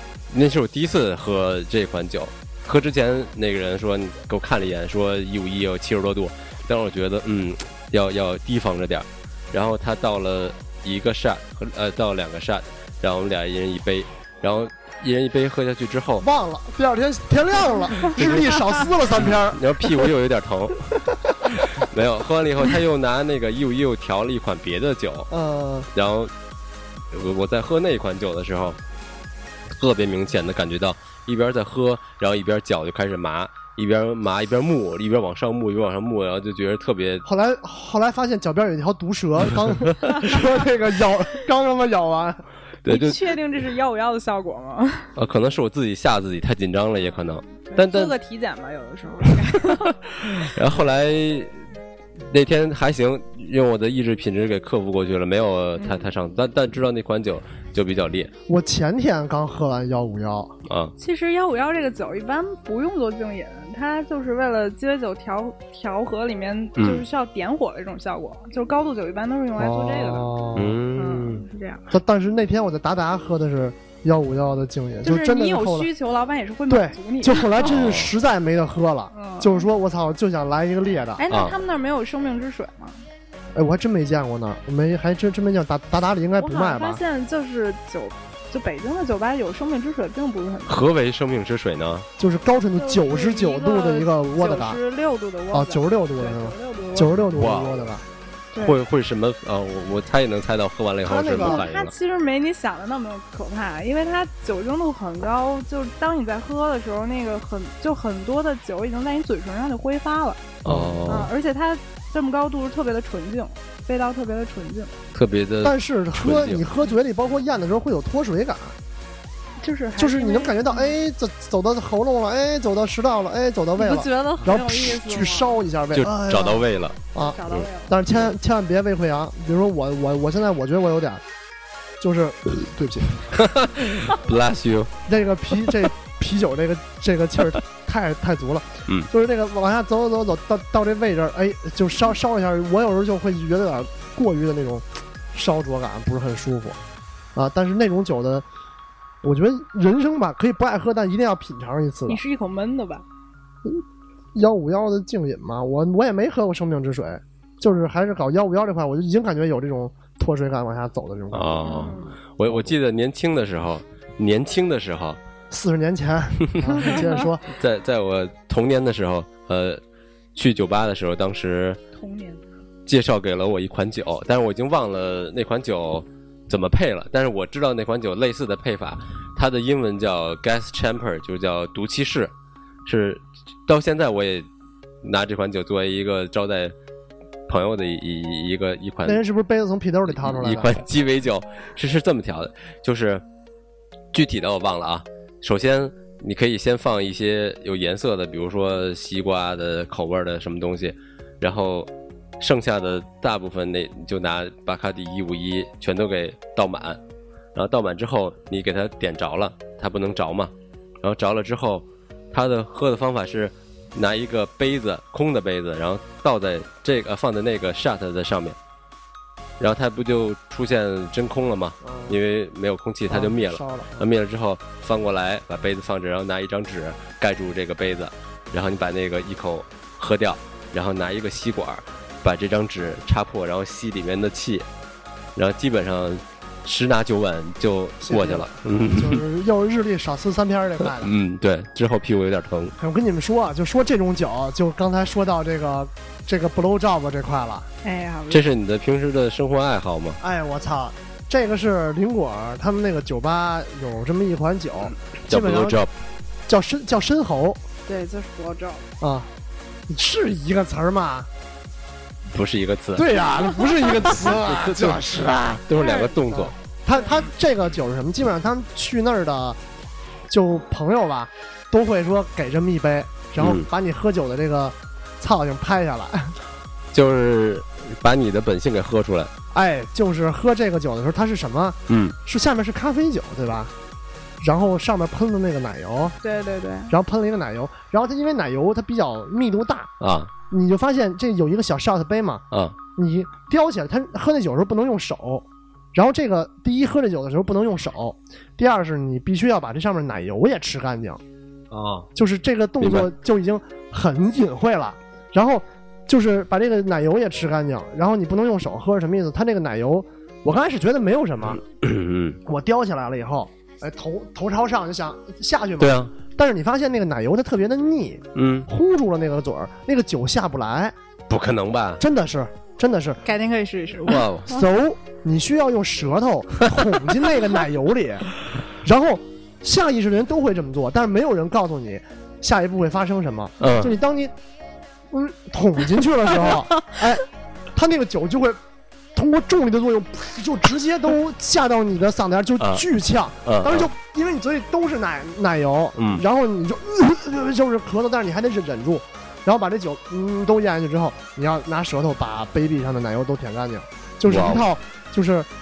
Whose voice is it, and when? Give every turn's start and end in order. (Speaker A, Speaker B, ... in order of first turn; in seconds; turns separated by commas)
Speaker A: 0.3-16.2, Speaker B: 16.2-20.1, Speaker A: 18.1-18.6, Speaker A: 19.1-20.8, Speaker B: 21.1-21.6, Speaker A: 21.7-25.3, Speaker B: 25.3-25.9, Speaker A: 25.9-26.3, Speaker A: 27.1-28.8, Speaker A: 29.8-37.2, Speaker B: 37.2-42.4, Speaker C: 40.1-40.4, Speaker A: 42.8-43.2, Speaker C: 42.9-45.1, Speaker A: 45.1-48.1, Speaker C: 47.0-50.5, Speaker A: 50.4-51.5, Speaker A: 52.3-58.3, Speaker C: 55.8-56.1, Speaker B: 58.5-60.5, Speaker A: 60.7-60.9, Speaker C: 61.0-70.3, Speaker A: 66.8-67.0, Speaker B: 69.6-70.8, Speaker A: 70.5-71.4, Speaker C: 71.0-71.9, Speaker B: 71.9-75.9, Speaker C: 75.0-77.5, Speaker B: 76.7-81.2, Speaker A: 77.6-78.1, Speaker C: 79.1-79.7, Speaker C: 81.2-83.0, Speaker A: 81.3-81.5, Speaker B: 83.5-87.0, Speaker C: 86.4-90.8, Speaker A: 90.7-92.0, Speaker B: 92.2-94.8, Speaker C: 92.8-97.3, Speaker B: 95.5-98.0, Speaker A: 97.4-97.8, Speaker A: 98.6-101.9, Speaker B: 101.0-101.6, Speaker C: 101.4-110.5, Speaker A: 110.6-111.3, Speaker B: 110.7-111.2, Speaker C: 111.1-114.9, Speaker A: 115.1-116.6, Speaker B: 115.6-118.8, Speaker C: 119.6-120.9, Speaker B: 120.0-131.2, Speaker C: 123.8-125.6, Speaker A: 125.9-127.0, Speaker C: 127.2-128.0, Speaker B: 132.0-133.2, Speaker A: 133.3-134.9, Speaker B: 135.1-146.8, Speaker B: 147.3-148.4, Speaker B: 149.2-152.2, Speaker C: 152.1-153.0, Speaker B: 154.3-161.9, Speaker A: 161.3-165.2, Speaker C: 161.6-162.1, Speaker B: 162.5-162.7, Speaker B: 165.5-167.4, Speaker A: 166.6-166.8, Speaker C: 166.8-167.1, Speaker A: 167.5-169.8, Speaker A: 170.3-171.8, Speaker C: 171.9-172.5, Speaker A: 172.9-182.3, Speaker A: 182.8-184.5, Speaker A: 185.0-186.7, Speaker A: 187.5-189.2, Speaker B: 189.0-190.8, Speaker A: 190.1-193.2, Speaker A: 194.1-207.0, Speaker A: 207.5-218.6, Speaker A: 219.6-234.7, Speaker B: 221.8-222.2, Speaker B: 223.1-224.1, Speaker A: 235.3-239.2, Speaker B: 238.0-241.1, Speaker A: 240.9-242.7, Speaker B: 242.8-247.7, Speaker C: 247.8-248.5, Speaker A: 248.3-250.2, Speaker B: 250.2-255.8, Speaker A: 255.2-255.9, Speaker B: 256.5-257.6, Speaker C: 257.9-258.9, Speaker B: 259.0-259.3, Speaker B: 259.9-261.3, Speaker A: 262.3-263.1, Speaker B: 262.9-265.6, Speaker A: 264.4-266.5, Speaker C: 265.8-266.1, Speaker B: 266.3-269.6, Speaker C: 266.9-267.2, Speaker B: 270.3-276.3, Speaker A: 273.4-273.7, Speaker A: 276.9-279.3, Speaker B: 279.5-283.7, Speaker A: 281.9-282.1, Speaker B: 284.4-286.1, Speaker C: 286.2-286.9, Speaker B: 286.9-289.9, Speaker A: 290.0-290.3, Speaker B: 290.5-301.2, Speaker A: 301.7-302.1, Speaker B: 302.1-311.6, Speaker A: 302.8-303.1, Speaker A: 311.6-312.4, Speaker B: 312.4-320.9, Speaker A: 315.8-316.1, Speaker A: 318.3-318.7, Speaker A: 321.3-322.0, Speaker B: 322.0-323.2, Speaker C: 323.2-324.3, Speaker A: 324.1-324.5, Speaker B: 324.5-328.3, Speaker B: 328.8-334.3, Speaker A: 333.6-333.9, Speaker B: 335.1-338.6, Speaker B: 339.1-355.5, Speaker A: 342.6-342.8, Speaker A: 343.4-343.9, Speaker A: 346.0-346.2, Speaker A: 354.3-354.7